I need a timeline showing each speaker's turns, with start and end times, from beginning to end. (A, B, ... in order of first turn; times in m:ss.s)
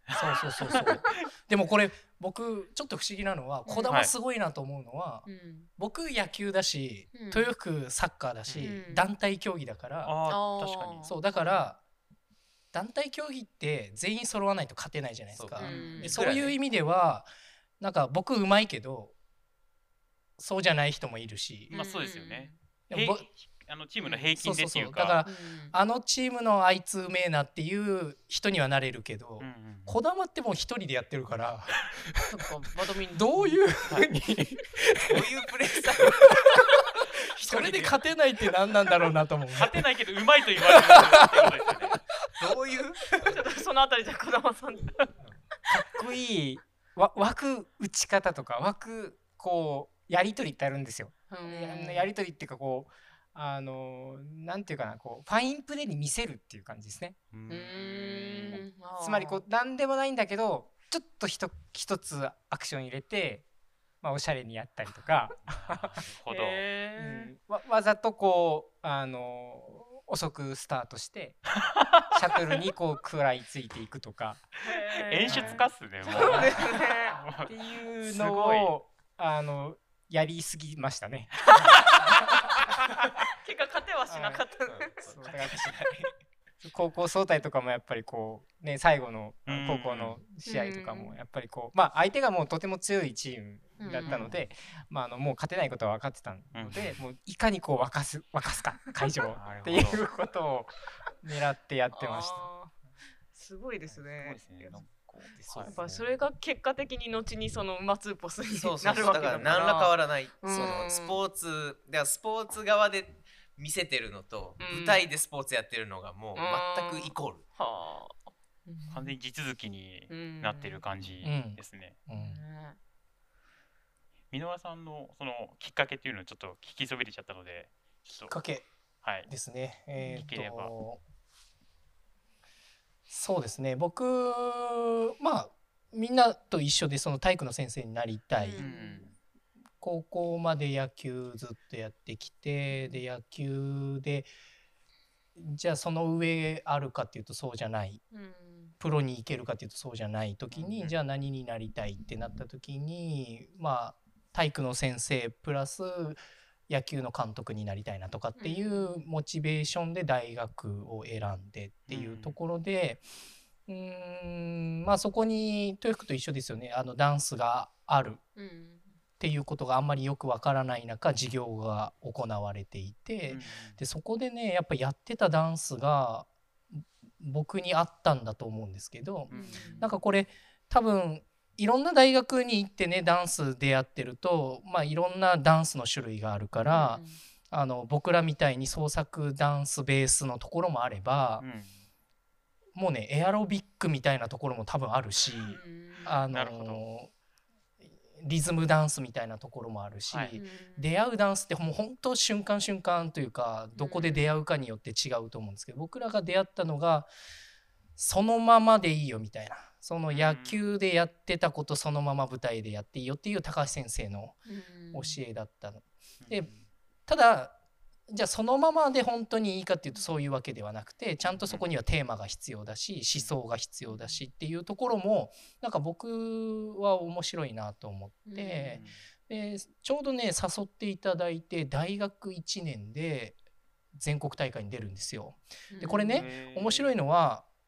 0:00.1-0:01.1 A
0:00.1-0:10.2 B
0:03.7-0:03.9 C
0:05.2-0:05.7 C
0:07.1-0:07.5 C
0:08.5-0:08.8 D
0:08.6-0:09.1 C
0:10.0-0:11.1 A
0:10.3-0:11.7 C
0:11.0-0:11.8 B
0:12.7-0:19.1 B
0:15.3-0:16.6 D
0:15.6-0:16.2 C
0:15.6-0:16.2 A
0:20.4-0:21.7 B
0:21.7-0:22.6 C
0:21.7-0:25.2 A
0:22.9-0:23.3 B
0:24.4-0:32.0 B
0:25.2-0:25.8 C
0:29.4-0:30.0 A
0:32.3-0:33.7 C
0:33.1-0:35.2 B
0:35.1-0:36.3 D
0:36.0-0:36.3 B
0:37.0-0:39.8 B
0:37.2-0:38.0 D
0:39.5-0:42.0 A
0:40.6-0:41.5 B
0:42.4-0:43.2 D
0:43.1-0:45.0 C
0:45.7-0:57.2 E
0:51.3-0:52.1 C
0:57.3-0:58.6 A
0:57.5-0:59.4 C
0:59.0-1:03.5 E
1:04.0-1:06.0 E
1:05.5-1:06.6 A
1:06.3-1:07.3 C
1:07.0-1:11.5 E
1:11.8-1:12.0 A
1:12.1-1:14.5 E
1:14.6-1:17.2 C
1:15.0-1:18.7 A
1:15.3-1:16.7 E
1:17.5-1:21.9 E
1:23.4-1:25.0 C
1:24.1-1:25.7 E
1:24.7-1:26.2 D
1:26.6-1:42.5 E
1:29.5-1:30.2 A
1:30.4-1:31.1 C
1:33.8-1:34.4 C
1:34.1-1:34.5 A
1:36.5-1:37.0 A
1:39.4-1:40.1 A
1:41.9-1:42.8 C
1:43.3-1:44.8 C
1:44.1-1:46.0 A
1:45.4-1:45.9 E
1:45.6-1:51.2 C
1:48.6-1:57.5 D
1:54.6-1:55.0 C
1:56.4-1:59.1 C
1:58.9-2:02.0 A
2:00.1-2:00.8 C
2:01.2-2:02.4 B
2:02.1-2:02.8 C
2:04.3-2:08.4 A
2:08.1-2:08.7 B
2:09.0-2:09.3 A
2:09.2-2:11.0 B
2:10.0-2:10.3 C
2:10.1-2:10.7 A
2:13.1-2:18.7 B
2:18.4-2:19.1 C
2:18.6-2:19.2 A
2:19.8-2:24.3 B
2:22.7-2:23.0 C
2:25.4-2:28.0 B
2:28.1-2:28.7 C
2:28.8-2:43.0 B
2:30.5-2:31.0 A
2:38.4-2:39.0 C
2:41.9-2:42.4 A
2:43.7-2:48.2 B
2:48.4-2:48.9 C
2:49.2-3:11.4 B
2:53.3-2:53.8 A
2:59.3-2:59.9 A
2:59.3-2:59.9 C
3:06.7-3:07.2 C
3:11.4-3:11.8 A
3:12.8-3:17.1 B
3:15.5-3:16.2 C
3:16.3-3:16.8 A
3:18.0-3:27.1 B
3:20.1-3:20.4 A
3:20.4-3:20.9 C
3:23.8-3:24.3 C
3:28.0-3:34.4 B
3:30.1-3:30.7 A
3:34.5-3:35.2 C
3:34.9-3:36.5 B
3:36.2-3:36.7 A
3:37.1-3:37.6 B
3:38.1-3:53.4 B
3:41.3-3:41.7 A
3:43.9-3:44.2 C
3:48.3-3:48.8 C
3:48.7-3:49.0 A
3:53.9-3:57.5 B
3:55.7-3:56.4 C
3:55.8-3:57.0 A